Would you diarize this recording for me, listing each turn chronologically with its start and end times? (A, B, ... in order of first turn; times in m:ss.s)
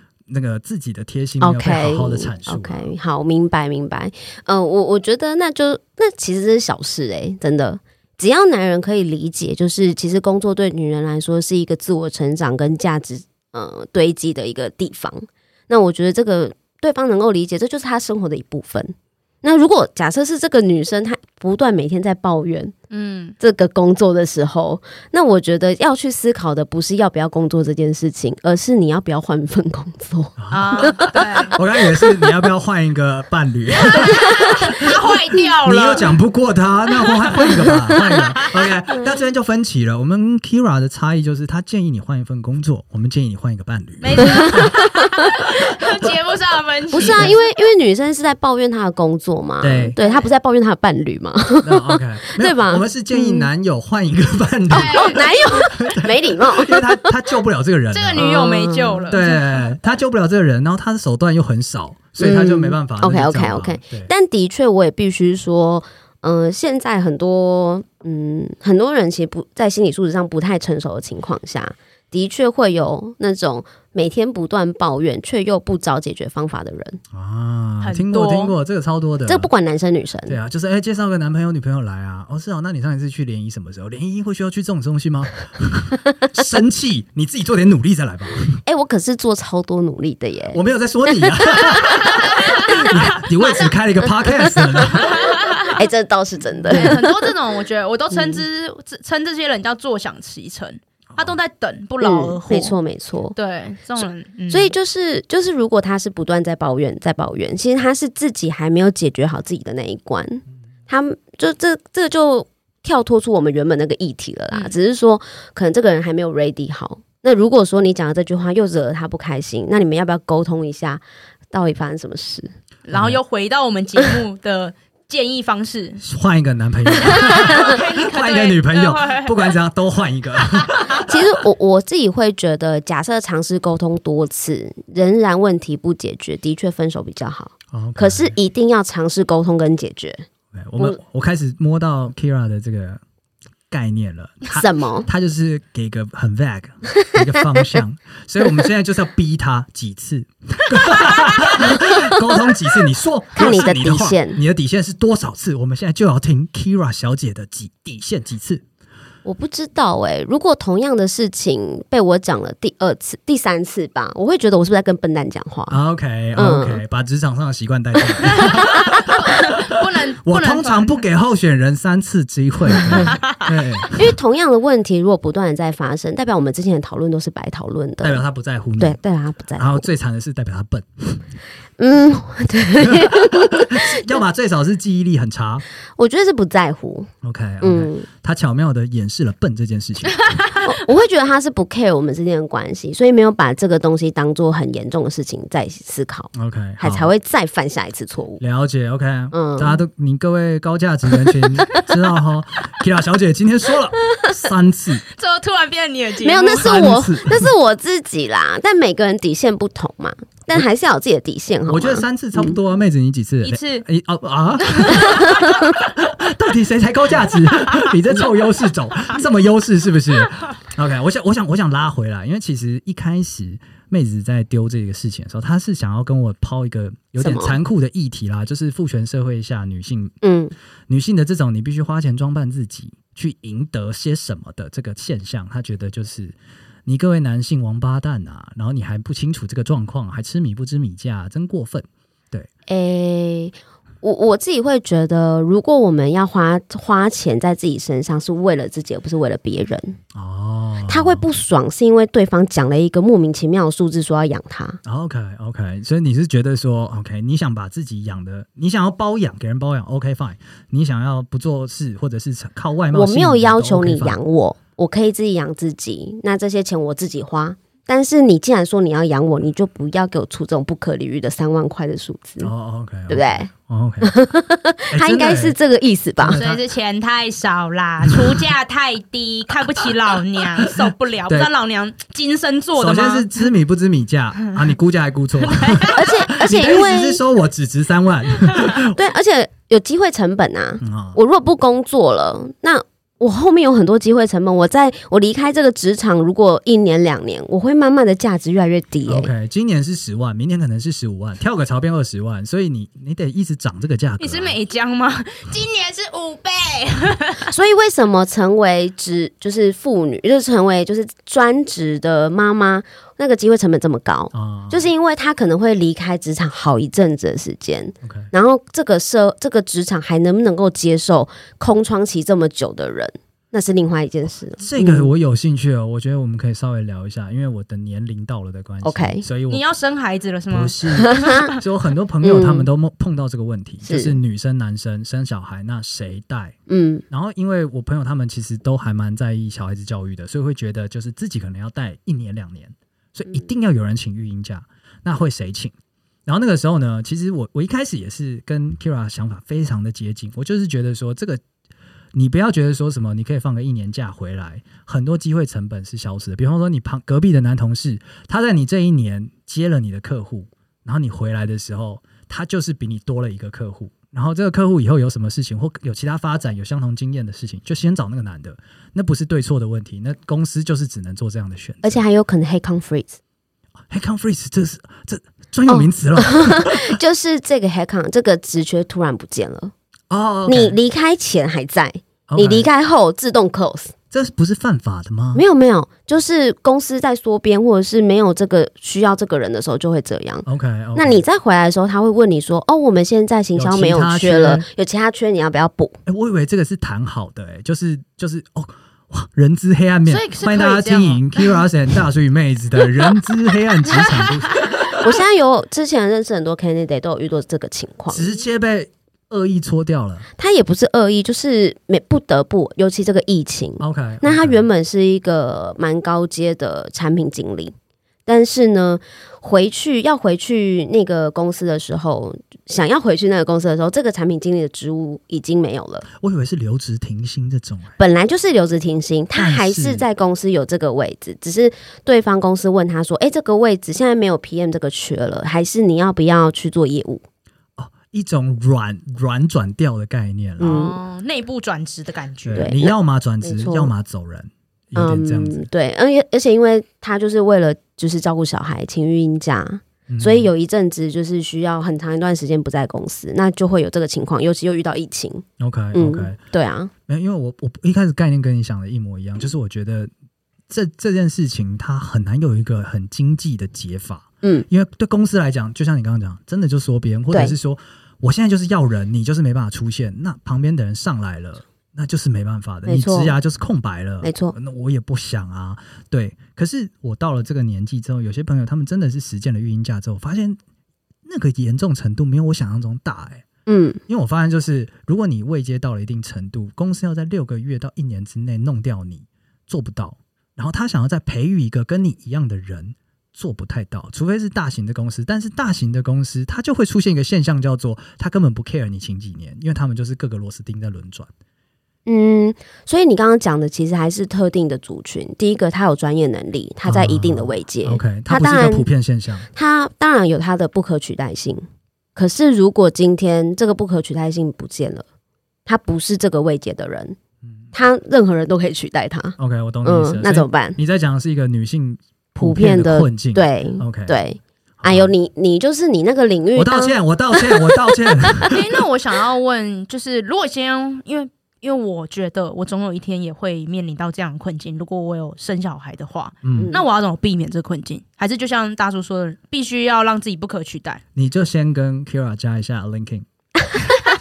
0:00.3-0:02.9 A
0:01.4-0:22.7 B
0:22.9-0:23.4 C
0:23.4-0:31.3 B
0:30.4-0:34.9 A
0:30.5-0:31.5 C
0:32.0-0:32.3 B
0:33.9-0:36.1 C
0:35.6-0:44.7 A
0:37.0-0:38.6 C
0:44.0-0:47.4 C
0:46.9-0:53.5 B
0:47.0-0:47.3 A
0:49.6-0:50.0 A
0:50.0-0:50.3 C
0:51.6-0:58.3 A
0:54.7-0:57.2 B
0:54.7-0:55.6 C
0:57.9-0:59.6 C
0:58.2-0:59.2 B
0:59.1-1:04.1 A
1:02.2-1:17.0 B
1:17.1-1:19.5 A
1:17.8-1:18.6 C
1:19.3-1:20.4 B
1:20.3-1:28.6 A
1:28.6-1:32.8 B
1:30.5-1:35.3 A
1:32.0-1:33.2 C
1:34.2-1:37.3 B
1:34.9-1:35.8 C
1:36.7-1:42.8 C
1:36.7-1:37.0 A
1:38.1-1:38.4 B
1:42.0-1:43.4 B
1:43.4-1:44.7 C
1:44.5-2:02.5 B
2:02.9-2:06.0 C
2:02.9-2:03.2 A
2:06.0-2:11.2 A
2:07.0-2:09.6 C
2:10.6-2:11.0 C
2:11.1-2:20.2 B
2:17.7-2:18.4 A
2:20.5-2:23.0 A
2:23.7-2:38.6 A
2:24.5-2:25.1 B
2:32.0-2:32.2 B
2:33.4-2:34.4 B
2:39.2-2:45.8 B
2:45.7-2:49.6 A
2:46.4-2:46.8 B
2:48.3-2:51.0 C
2:50.2-2:54.1 A
2:53.0-2:53.4 C
2:53.9-2:58.2 B
2:58.0-2:59.0 A
2:58.8-2:59.9 B
2:59.6-3:01.2 A
3:01.8-3:04.2 B
3:02.8-3:05.6 A
3:06.0-3:07.1 B
3:07.2-3:10.3 A
3:07.6-3:08.1 B
3:10.2-3:10.7 C
3:10.6-3:18.4 B
3:16.3-3:17.1 A
3:18.4-3:25.0 A
3:19.3-3:19.8 B
3:25.1-3:26.7 C
3:26.2-3:32.6 B
3:26.6-3:27.5 A
3:31.7-3:50.2 A
3:33.4-3:33.8 C
3:34.6-3:35.7 C
3:47.2-3:47.6 B
3:50.2-3:50.5 B
3:50.9-3:56.4 A
3:56.9-4:02.5 A
4:02.7-4:10.0 B
4:10.1-4:11.2 A
4:10.9-4:14.8 B
4:14.8-4:24.2 A
4:22.9-4:32.5 B
4:32.4-4:34.2 A
4:33.1-4:33.5 B
4:34.0-4:36.4 B
4:34.9-4:35.6 A
4:36.2-4:36.6 A
4:36.3-4:43.4 C
4:38.1-4:38.4 A
4:42.8-4:49.0 A
4:45.5-4:46.0 C
4:45.9-4:47.2 B
4:48.9-4:59.3 B
4:50.8-4:51.2 A
4:59.1-5:04.6 A
5:04.2-5:07.5 C
5:07.5-5:25.1 B
5:14.3-5:14.9 A
5:18.0-5:18.3 A
5:24.6-5:29.6 A
5:28.8-5:29.2 B
5:29.5-5:31.6 C
5:30.5-5:36.6 A
5:31.0-5:31.5 B
5:32.2-5:32.7 B
5:33.8-5:34.2 B
5:36.7-5:37.0 B
5:37.1-5:45.7 A
5:46.3-5:51.4 A
5:52.1-6:12.0 A
6:11.8-6:13.2 B
6:13.9-6:17.0 A
6:15.7-6:19.7 B
6:20.1-6:20.8 A
6:20.5-6:23.9 B
6:22.3-6:22.7 A
6:24.1-6:25.4 A
6:25.3-6:36.0 B
6:30.5-6:31.2 A
6:33.6-6:34.7 A
6:36.1-6:45.0 A
6:40.1-6:41.6 C
6:43.9-6:44.7 C
6:45.0-6:48.3 B
6:48.1-6:50.3 A
6:50.4-6:57.8 B
6:53.8-6:54.7 A
6:58.3-7:06.1 B
7:06.2-7:08.0 A
7:08.0-7:17.2 B
7:09.4-7:10.0 A
7:17.8-7:20.9 A
7:20.6-7:21.0 B
7:20.6-7:22.7 C
7:22.4-7:25.7 A
7:22.6-7:23.9 B
7:25.0-7:36.9 B
7:30.1-7:30.5 A
7:35.6-7:36.4 A
7:37.1-7:40.1 A
7:40.7-8:00.6 A
7:52.9-7:53.4 B
7:54.2-7:54.6 B
8:01.3-8:03.4 A
8:03.7-8:04.0 B
8:04.1-8:21.3 A
8:22.1-8:28.9 B
8:26.9-8:29.5 A
8:29.5-8:31.6 B
8:32.2-8:35.0 B
8:35.7-8:37.2 B
8:37.7-8:40.8 B
8:39.4-8:44.2 A
8:42.4-8:48.5 B
8:44.8-8:45.1 A
8:46.6-8:48.6 A
8:48.5-9:01.0 C
8:56.4-8:56.7 A
8:56.6-8:56.8 B
9:01.2-9:03.3 A